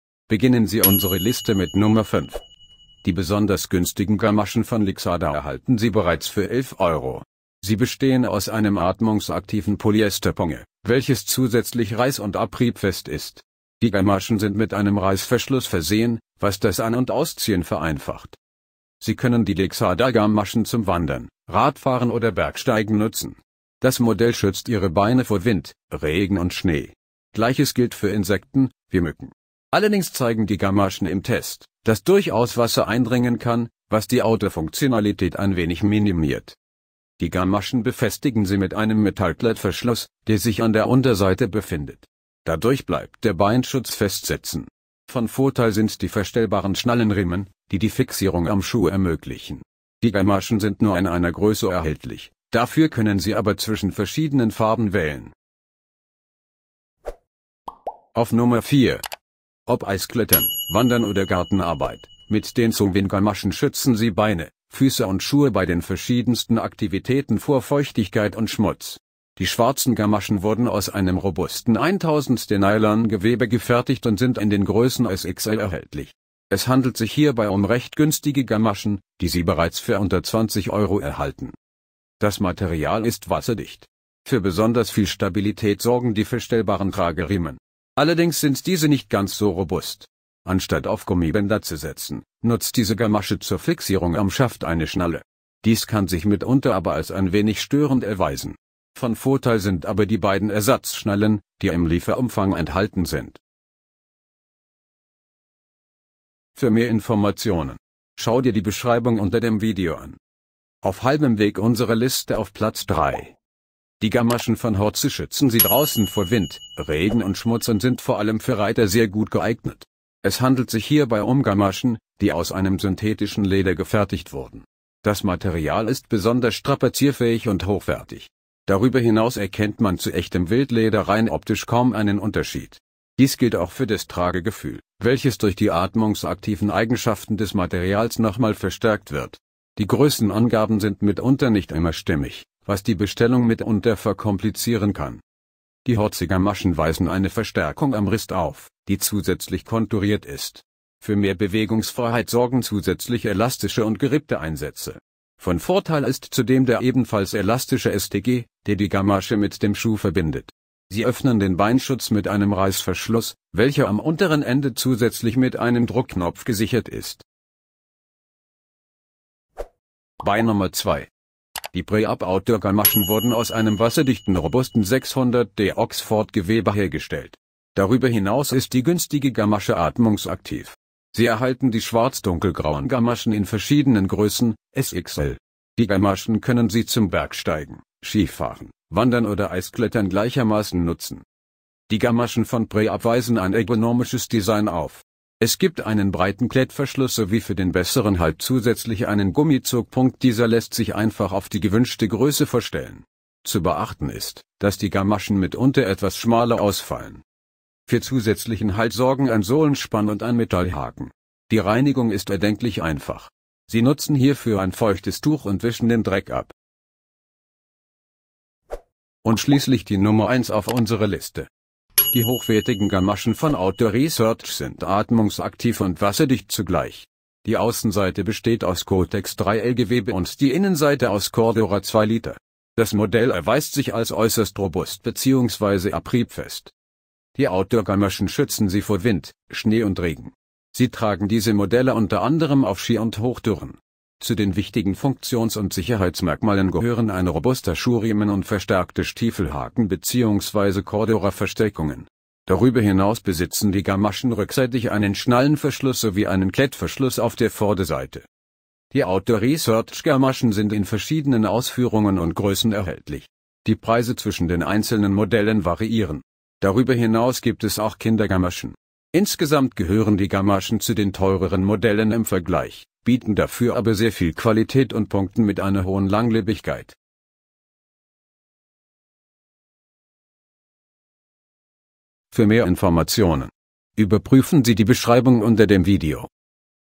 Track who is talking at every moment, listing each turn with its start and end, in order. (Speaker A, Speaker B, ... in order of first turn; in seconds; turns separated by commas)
Speaker A: 0.3-2.4, Speaker A: 3.0-18.4, Speaker A: 19.0-36.6, Speaker A: 37.2-55.3, Speaker A: 58.1-59.0, Speaker A: 59.7-81.6, Speaker A: 82.2-103.4, Speaker A: 106.5-110.2, Speaker A: 110.8-113.3, Speaker A: 114.0-145.2, Speaker A: 145.8-167.2, Speaker A: 170.2-171.1, Speaker A: 171.7-191.2, Speaker A: 191.9-207.2, Speaker A: 207.9-216.5, Speaker A: 219.2-221.5, Speaker A: 222.1-236.7, Speaker A: 237.3-258.3, Speaker A: 258.9-277.0, Speaker A: 282.3-286.3